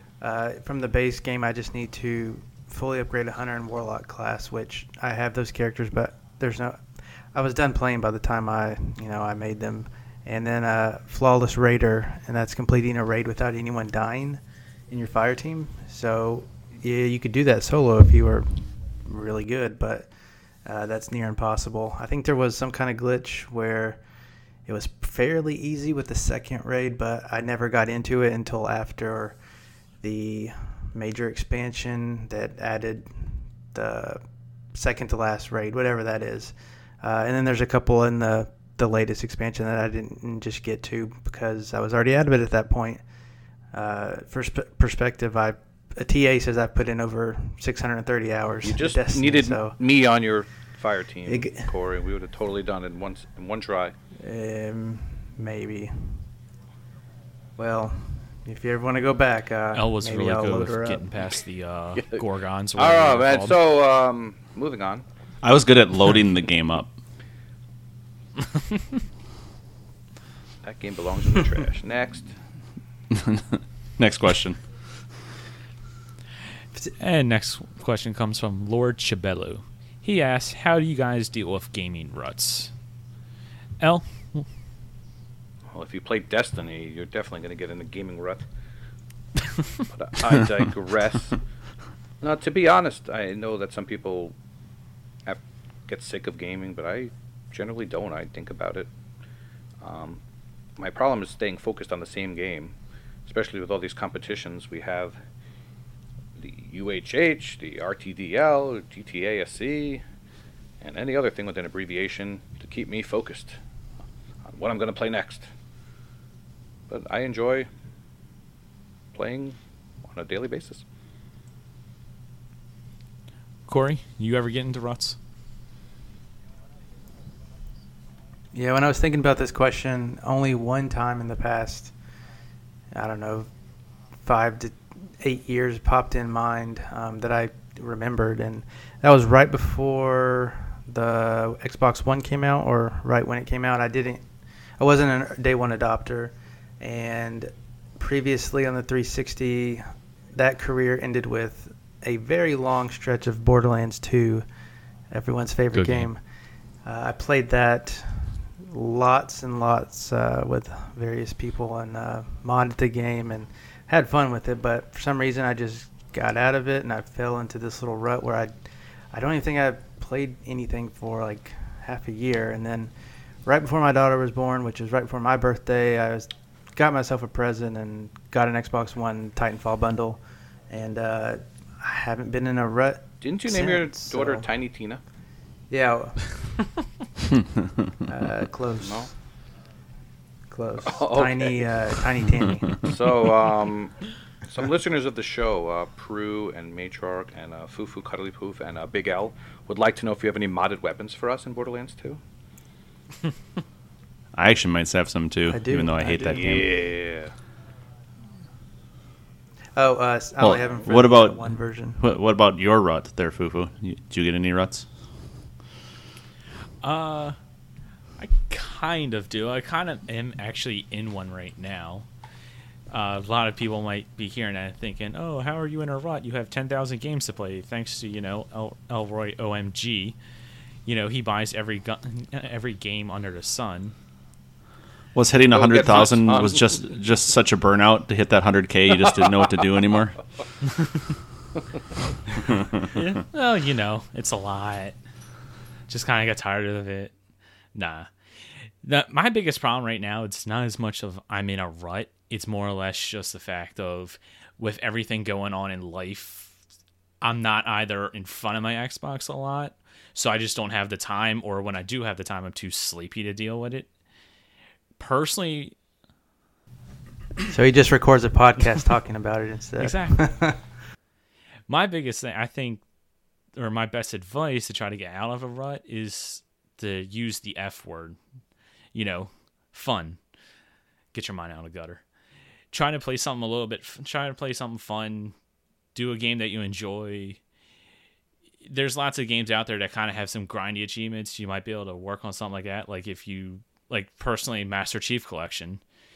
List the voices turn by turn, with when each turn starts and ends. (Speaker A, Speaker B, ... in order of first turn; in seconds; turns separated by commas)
Speaker A: 0.2-20.1, Speaker A: 20.6-24.0, Speaker A: 24.6-29.4, Speaker A: 30.0-43.0, Speaker A: 43.7-49.8, Speaker B: 48.6-53.9, Speaker A: 51.2-51.7, Speaker A: 54.1-56.3, Speaker A: 57.6-61.2, Speaker C: 59.7-63.6, Speaker B: 62.0-62.2, Speaker B: 62.7-65.0, Speaker D: 65.4-66.9, Speaker B: 70.6-72.4, Speaker D: 73.2-75.0, Speaker C: 77.0-82.7, Speaker C: 83.8-84.5, Speaker B: 85.7-88.5, Speaker B: 89.9-91.5, Speaker B: 92.2-94.3, Speaker B: 95.2-98.9, Speaker B: 99.8-100.2, Speaker B: 100.8-102.7, Speaker B: 103.2-105.2, Speaker B: 106.3-110.0, Speaker B: 110.8-113.6, Speaker B: 114.4-115.5, Speaker B: 116.9-117.7, Speaker B: 119.1-120.8, Speaker C: 123.7-125.2, Speaker A: 128.5-131.9, Speaker A: 132.9-133.5, Speaker A: 134.2-144.2, Speaker A: 144.8-154.4, Speaker A: 155.1-156.2, Speaker D: 155.7-156.1, Speaker A: 156.8-168.6, Speaker A: 169.1-172.9, Speaker A: 173.4-184.5, Speaker B: 183.2-185.0, Speaker A: 185.7-186.7, Speaker A: 188.1-189.2, Speaker B: 188.8-189.1, Speaker A: 190.5-192.9, Speaker B: 190.8-191.8, Speaker B: 192.8-202.2, Speaker D: 204.3-206.7, Speaker A: 205.4-206.7, Speaker B: 206.3-207.3, Speaker A: 209.7-212.0, Speaker D: 210.4-214.9, Speaker C: 216.8-217.4, Speaker C: 218.2-222.1, Speaker C: 222.9-230.2, Speaker C: 230.8-233.9, Speaker D: 235.1-240.3, Speaker B: 235.5-236.8, Speaker D: 242.4-242.8, Speaker C: 243.0-245.0, Speaker C: 245.9-247.1, Speaker C: 247.7-248.1, Speaker C: 248.8-256.5, Speaker C: 257.2-263.9, Speaker C: 265.0-265.8, Speaker A: 267.5-270.6, Speaker C: 269.8-270.4, Speaker C: 271.7-272.8, Speaker C: 273.5-278.2, Speaker C: 278.9-280.2, Speaker C: 281.1-282.0, Speaker C: 282.7-285.3, Speaker C: 285.9-287.4, Speaker C: 288.6-295.8